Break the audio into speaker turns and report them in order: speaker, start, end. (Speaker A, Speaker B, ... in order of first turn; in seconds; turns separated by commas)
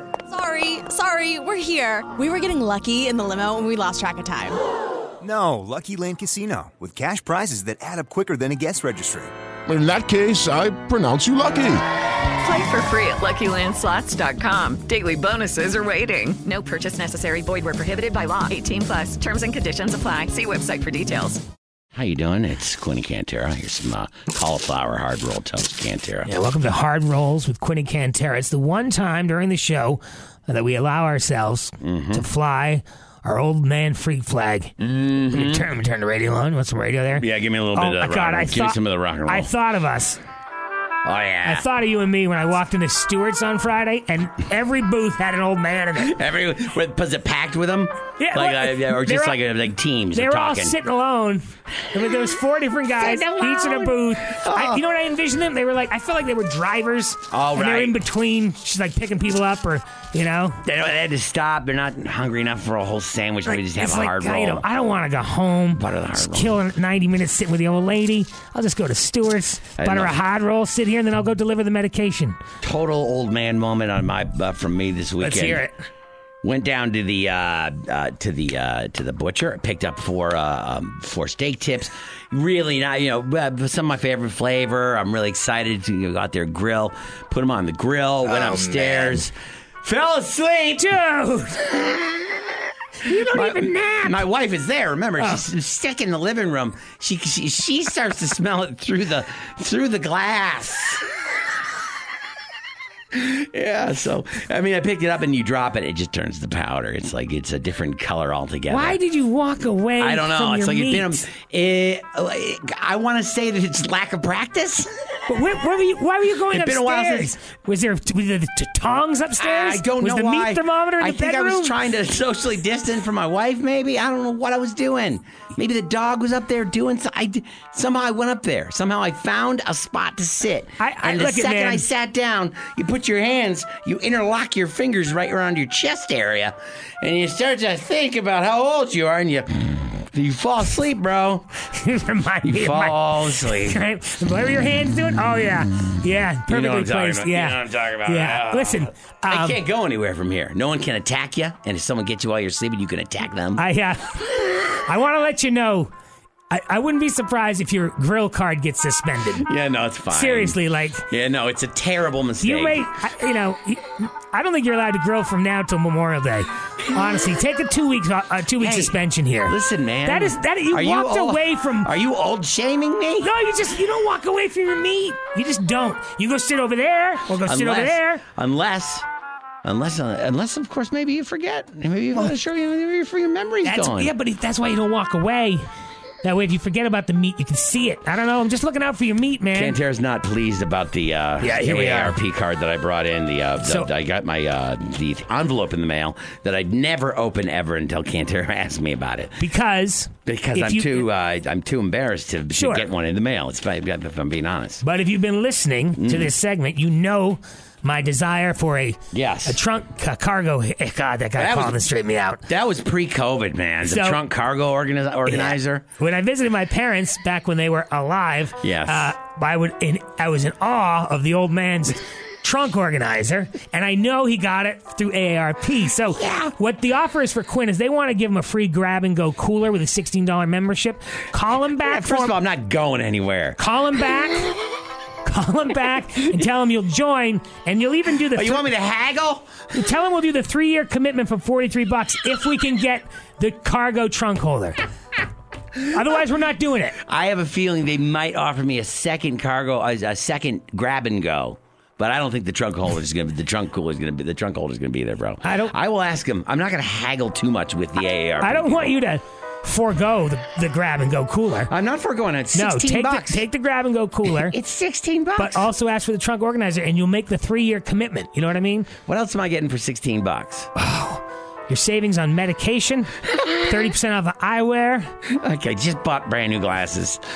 Speaker A: 0.3-4.6, Speaker B: 5.2-9.3, Speaker C: 9.7-11.8, Speaker D: 12.4-21.4, Speaker E: 21.9-26.3, Speaker F: 26.3-40.2, Speaker E: 31.8-32.3, Speaker E: 34.8-35.7, Speaker E: 37.2-39.5, Speaker E: 41.0-41.7, Speaker F: 41.5-46.1, Speaker E: 46.0-50.8, Speaker F: 48.2-49.4, Speaker F: 50.1-60.6, Speaker E: 53.0-54.8, Speaker E: 57.3-58.0, Speaker E: 60.6-64.7, Speaker F: 63.5-72.4, Speaker E: 65.8-66.6, Speaker E: 69.8-70.2, Speaker E: 72.6-75.6, Speaker F: 75.2-75.7, Speaker E: 76.4-89.3, Speaker F: 88.3-89.2, Speaker E: 89.8-90.9, Speaker F: 90.8-91.7, Speaker F: 93.0-94.2, Speaker E: 93.3-101.0, Speaker E: 103.1-109.0, Speaker F: 108.7-111.2, Speaker E: 110.0-115.2, Speaker F: 115.3-121.7, Speaker E: 116.5-117.3, Speaker E: 119.4-141.5, Speaker F: 130.8-131.9, Speaker F: 141.7-149.6, Speaker E: 142.4-143.8, Speaker E: 146.5-153.6, Speaker F: 153.6-155.9, Speaker F: 156.5-159.5, Speaker E: 159.3-160.6, Speaker F: 160.1-161.1, Speaker E: 161.1-162.9, Speaker F: 162.4-171.9, Speaker E: 168.6-173.3, Speaker F: 173.2-178.2, Speaker E: 177.4-179.1, Speaker E: 179.6-184.1, Speaker F: 183.6-185.7, Speaker F: 186.2-189.8, Speaker E: 189.5-199.4, Speaker F: 191.4-192.2, Speaker F: 193.6-193.9, Speaker F: 199.4-201.1, Speaker E: 200.3-204.8, Speaker F: 202.5-202.9, Speaker F: 204.8-212.4, Speaker E: 206.0-206.3, Speaker E: 209.1-209.6, Speaker E: 211.4-211.8, Speaker E: 212.5-215.8, Speaker F: 213.8-214.2, Speaker F: 215.3-232.4, Speaker E: 218.6-219.1, Speaker E: 226.1-226.5, Speaker E: 231.9-233.6, Speaker F: 233.6-234.5, Speaker F: 235.2-238.6, Speaker E: 238.3-239.7, Speaker F: 239.7-244.8, Speaker F: 245.8-247.0, Speaker E: 247.0-258.9, Speaker F: 255.4-255.7, Speaker F: 258.4-261.7, Speaker E: 261.7-263.5, Speaker F: 262.5-264.6, Speaker E: 264.3-265.7, Speaker F: 265.4-268.9, Speaker E: 269.1-270.7, Speaker F: 270.8-275.1, Speaker E: 275.3-277.2